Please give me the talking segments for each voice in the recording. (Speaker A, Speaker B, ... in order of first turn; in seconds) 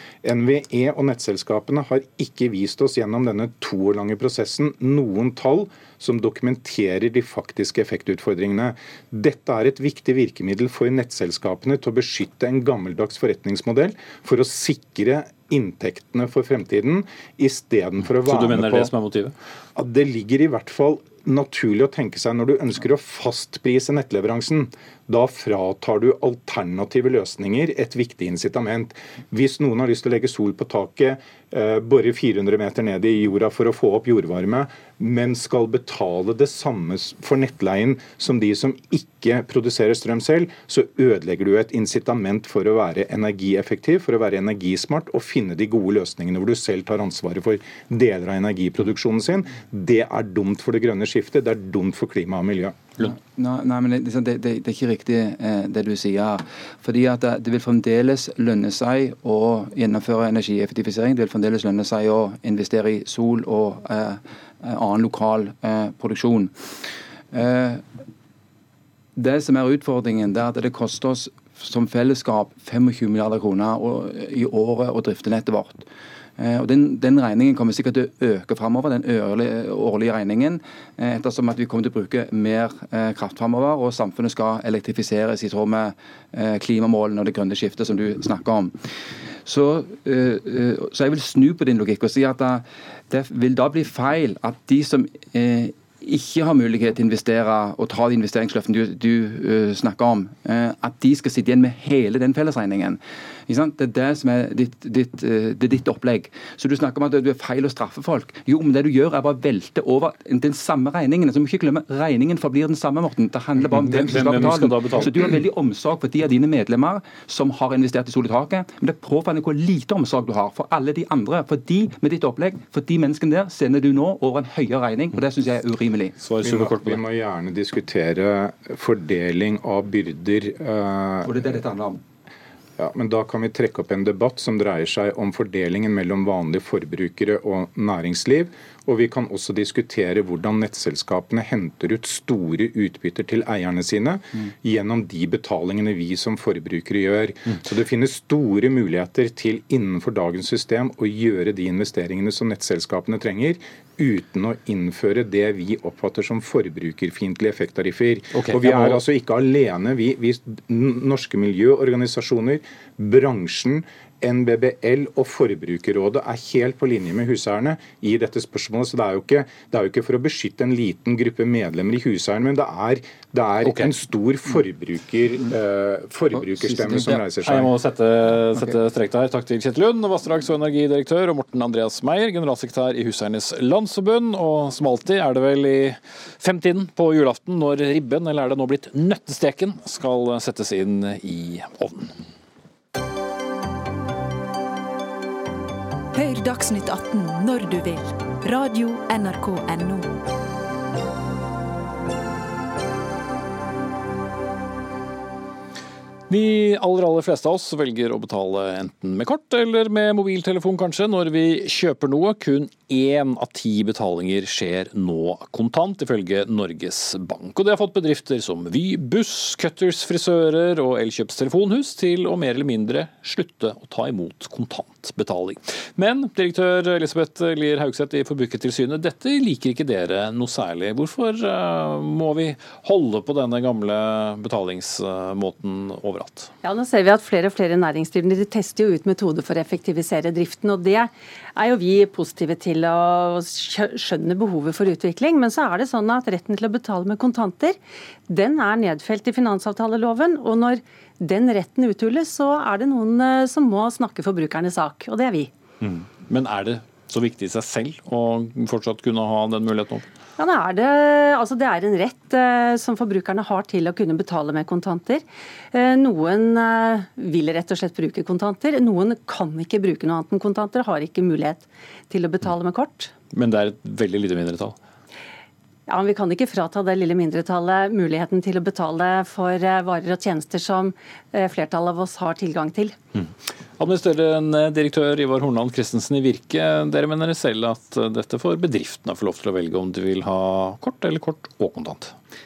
Speaker A: 0.2-18.9, 19.8-52.9, 126.4-131.3, 132.8-177.7
Speaker B: 18.0-19.3, 113.6-115.3, 126.2-127.0, 158.3-159.0, 173.6-173.9, 176.8-192.1, 206.3-236.5, 255.8-260.1, 273.3-274.8, 283.1-292.1
Speaker C: 53.0-66.5, 67.3-67.8, 69.2-75.9, 76.4-88.8, 89.4-126.2, 131.2-132.0, 176.7-177.2
Speaker D: 196.1-200.2
Speaker E: 236.6-247.8, 248.3-255.5, 260.4-273.1, 275.9-282.9